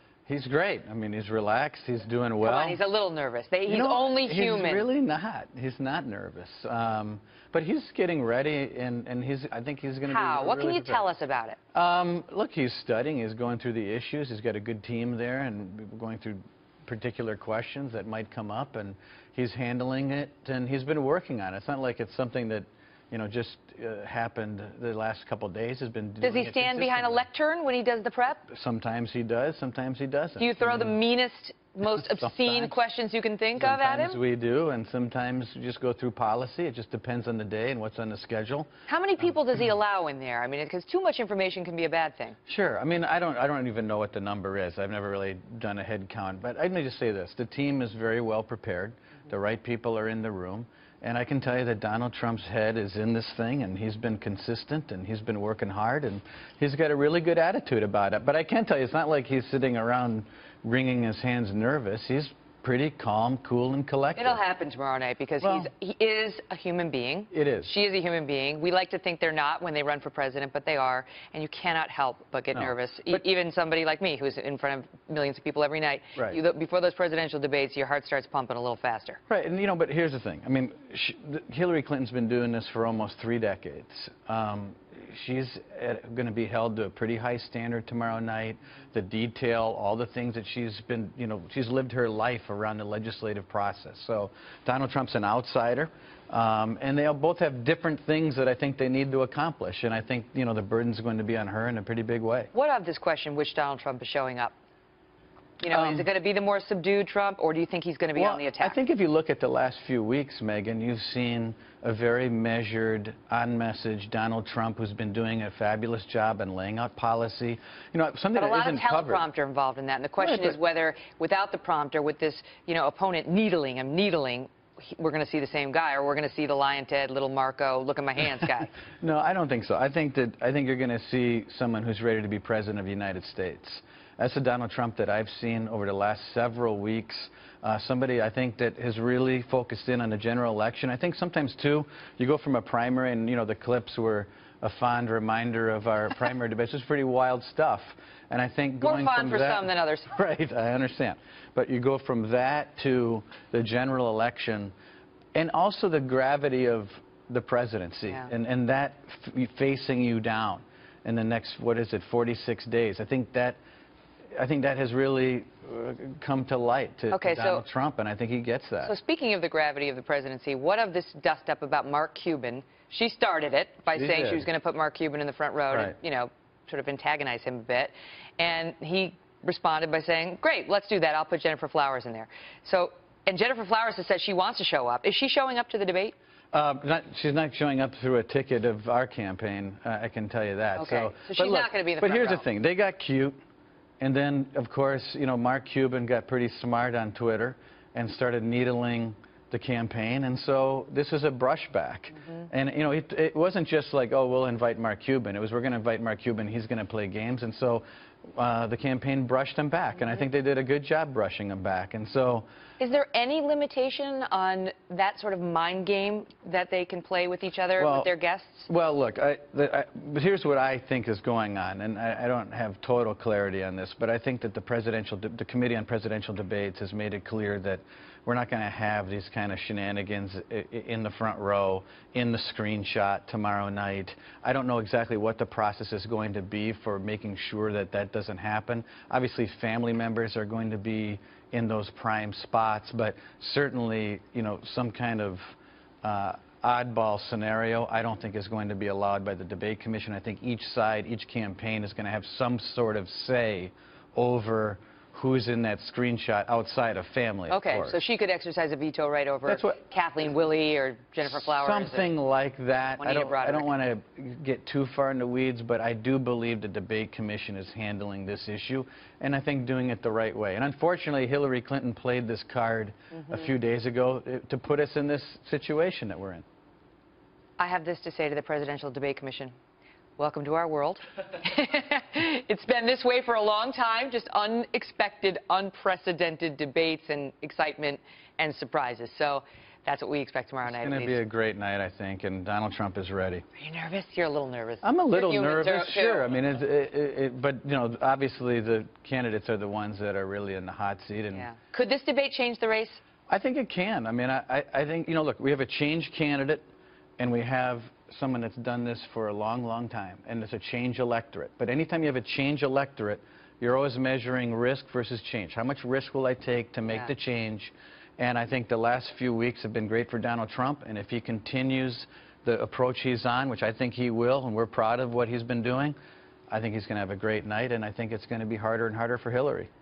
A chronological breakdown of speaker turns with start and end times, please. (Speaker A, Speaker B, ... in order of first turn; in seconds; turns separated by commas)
Speaker A: 0.3-2.8, Speaker B: 2.4-4.8, Speaker A: 3.7-11.1, Speaker B: 10.1-11.6, Speaker A: 11.7-27.3, Speaker B: 26.2-28.5, Speaker A: 28.5-31.0, Speaker B: 30.4-34.2, Speaker A: 31.9-32.7, Speaker A: 33.6-38.7, Speaker B: 38.9-42.4, Speaker A: 42.5-64.4, Speaker B: 64.2-79.2, Speaker A: 65.4-65.7, Speaker A: 67.3-67.7, Speaker A: 72.5-73.2, Speaker A: 79.3-102.5, Speaker B: 102.5-104.5, Speaker B: 105.6-108.8, Speaker A: 105.7-106.1, Speaker A: 108.2-119.2, Speaker B: 118.3-128.8, Speaker A: 120.2-120.6, Speaker A: 129.0-154.7, Speaker B: 148.8-150.1, Speaker A: 155.3-163.6, Speaker A: 164.3-168.9, Speaker B: 167.1-167.6, Speaker B: 168.8-186.2, Speaker A: 173.9-174.5, Speaker A: 186.5-193.4, Speaker B: 190.8-192.4, Speaker A: 194.0-212.5, Speaker B: 212.8-218.7, Speaker A: 217.8-218.1, Speaker A: 218.7-258.0, Speaker B: 257.5-262.1, Speaker A: 259.5-259.8, Speaker A: 261.2-276.4, Speaker B: 263.0-263.7, Speaker B: 277.6-279.6, Speaker B: 280.2-291.2, Speaker A: 290.7-293.4, Speaker B: 293.6-296.3, Speaker A: 294.8-301.5, Speaker B: 301.3-303.0, Speaker A: 303.3-306.6, Speaker A: 307.2-326.0, Speaker A: 326.5-329.7